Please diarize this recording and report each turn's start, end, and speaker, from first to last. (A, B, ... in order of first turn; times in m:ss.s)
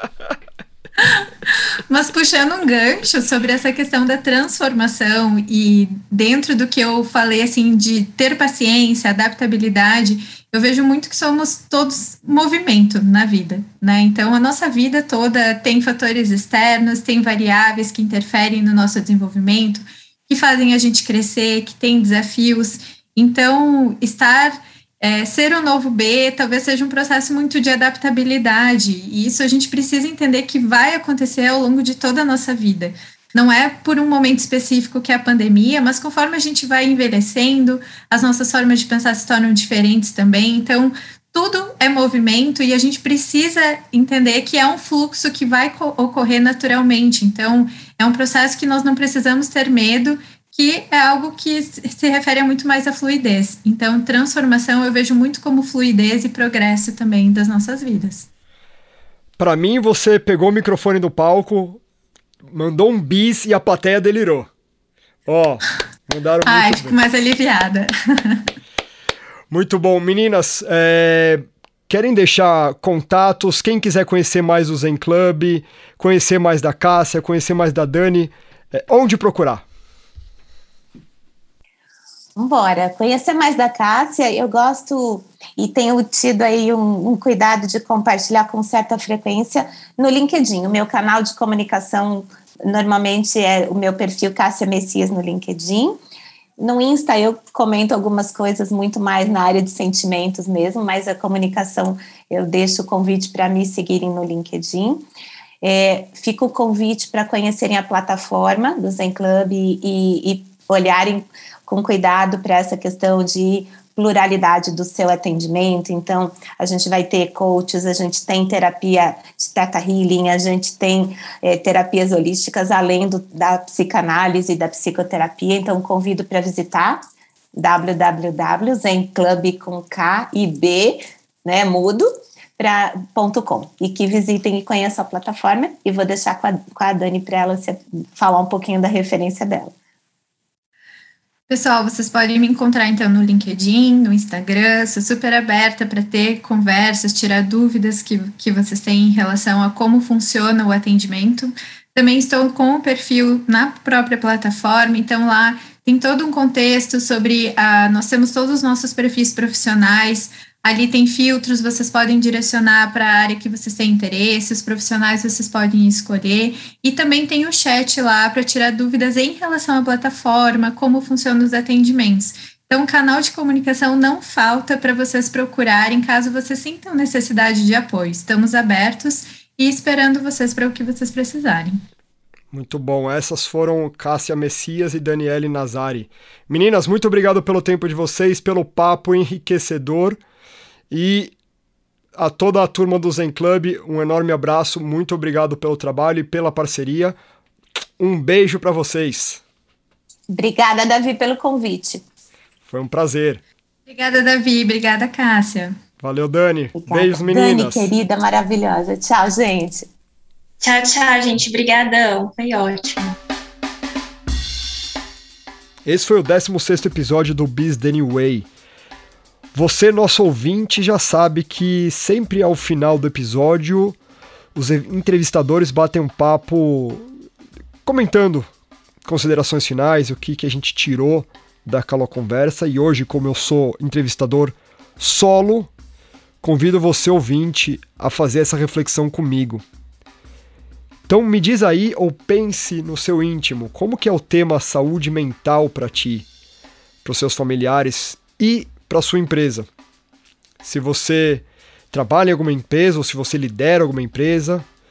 0:01.0-0:58.3 A
0:59.4-1:01.8 B
1:02.5-1:04.5 B
1:05.2-1:07.0 B
1:06.4-1:08.5 A
1:09.5-1:19.6 B
1:22.4-1:36.0 C
1:36.6-1:45.0 C
1:45.6-2:07.0 C
2:07.5-2:19.7 C
2:21.5-3:01.8 A
3:02.5-3:10.2 B
3:10.9-3:11.3 B
3:12.2-3:17.2 B
3:18.0-3:19.4 B
3:20.3-3:22.0 C
3:22.6-3:23.4 B
3:23.9-3:25.8 A
3:26.0-3:27.9 B
3:26.8-3:29.9 C
3:30.6-3:33.1 D
3:35.8-3:38.5 B
3:39.5-3:44.0 B
3:44.5-3:47.1 B
3:47.8-3:48.5 B
3:49.0-3:55.7 B
3:56.4-3:59.6 B
4:01.1-4:06.3 B
4:07.0-4:09.7 B
4:10.6-4:14.6 B